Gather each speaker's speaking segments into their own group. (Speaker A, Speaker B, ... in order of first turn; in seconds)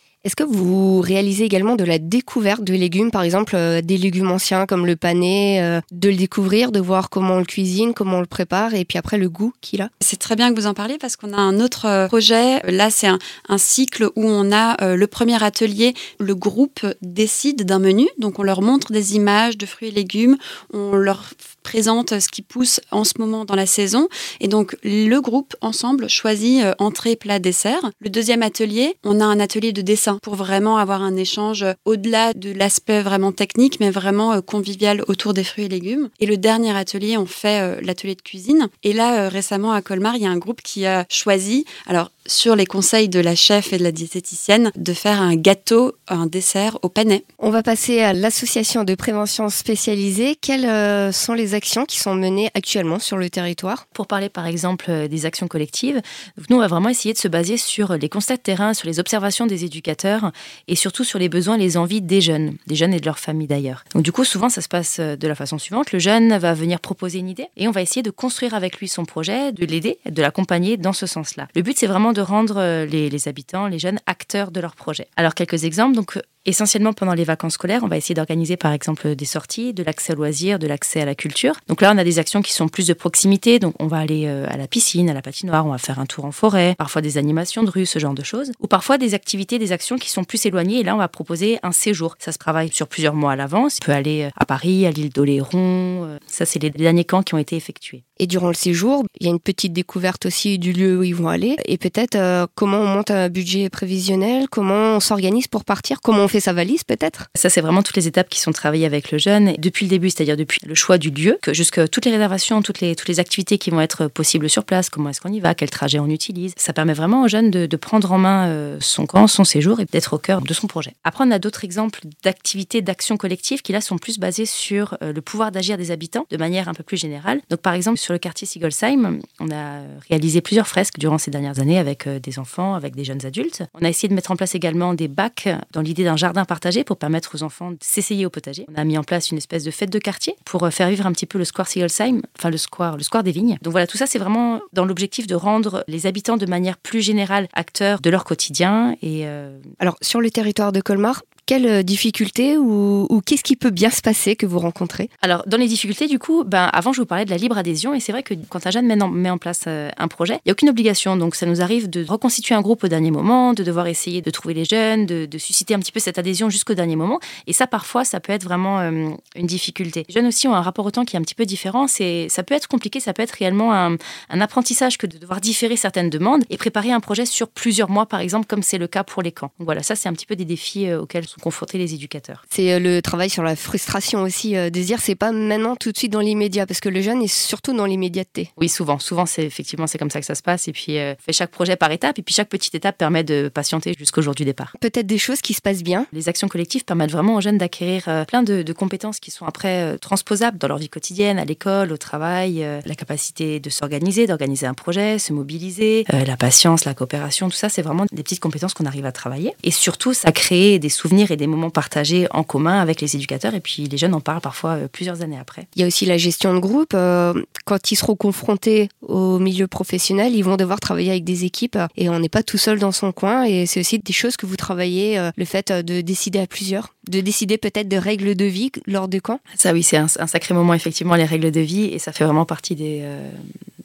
Speaker A: 0.2-9.9, 47.4-53.8, 98.2-107.3, 149.8-155.1, 182.5-188.5, 194.8-196.1, 215.8-229.4
Speaker B: 10.0-47.2
Speaker C: 53.9-98.0, 107.3-149.6, 155.2-182.4, 188.6-194.7, 196.1-215.7, 229.5-233.4